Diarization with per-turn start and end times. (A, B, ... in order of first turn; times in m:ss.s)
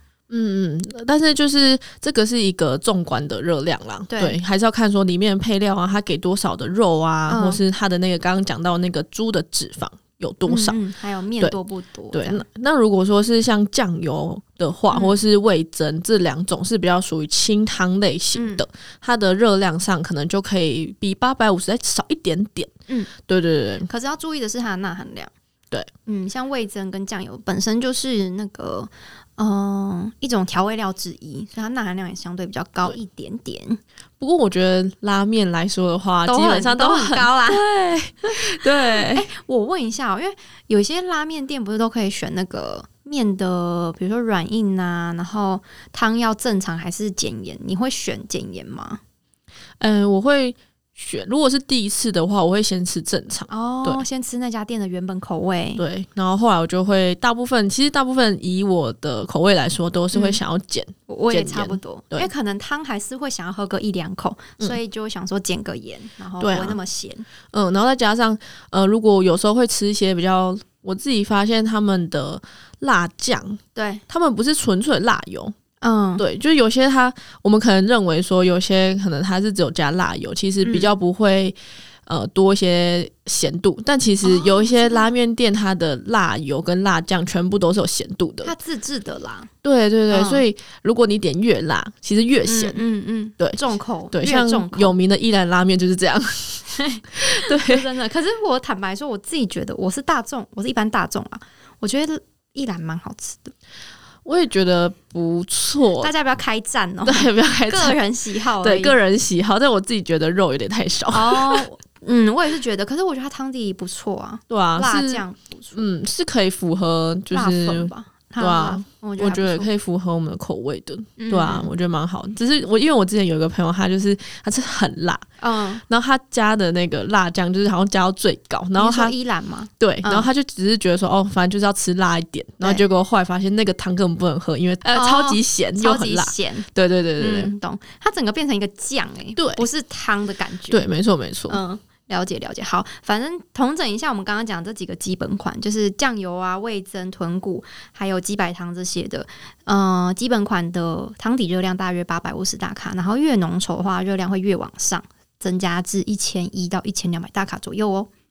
0:00.3-0:10.8 A
0:04.1-0:04.4 B
0:07.3-0:07.6 B
0:10.5-0:12.4 B
0:12.1-0:22.7 A
0:14.9-0:15.2 B
0:18.3-0:18.6 B
0:23.3-0:23.9 A
0:23.9-0:25.3 B
0:26.0-0:33.8 B
0:34.2-0:39.3 A
0:36.2-0:37.6 B
0:38.2-0:49.0 B
0:49.8-0:54.0 A
0:53.5-0:55.8 B
0:55.8-1:02.3 A
1:00.1-1:00.4 B
1:01.1-1:07.2 B
1:06.4-1:06.8 A
1:07.5-1:15.5 A
1:13.7-1:14.0 B
1:15.8-1:16.2 B
1:16.2-1:28.5 A
1:20.6-1:20.9 B
1:24.2-1:25.1 B
1:28.4-1:29.5 B
1:29.6-1:32.8 A
1:30.1-1:30.4 B
1:32.4-1:35.0 B
1:34.1-1:37.8 A
1:36.7-1:43.5 B
1:44.2-1:46.1 A
1:46.0-1:49.0 B
1:47.0-1:48.0 A
1:48.6-1:51.7 A
1:51.1-1:55.9 B
1:54.5-2:05.2 A
1:57.3-1:59.7 B
2:01.2-2:01.7 B
2:05.4-2:05.8 B
2:05.9-2:09.1 A
2:08.8-2:10.3 B
2:09.8-2:17.5 A
2:14.9-2:20.8 B
2:19.4-2:19.6 A
2:20.7-2:21.6 A
2:21.5-2:38.1 B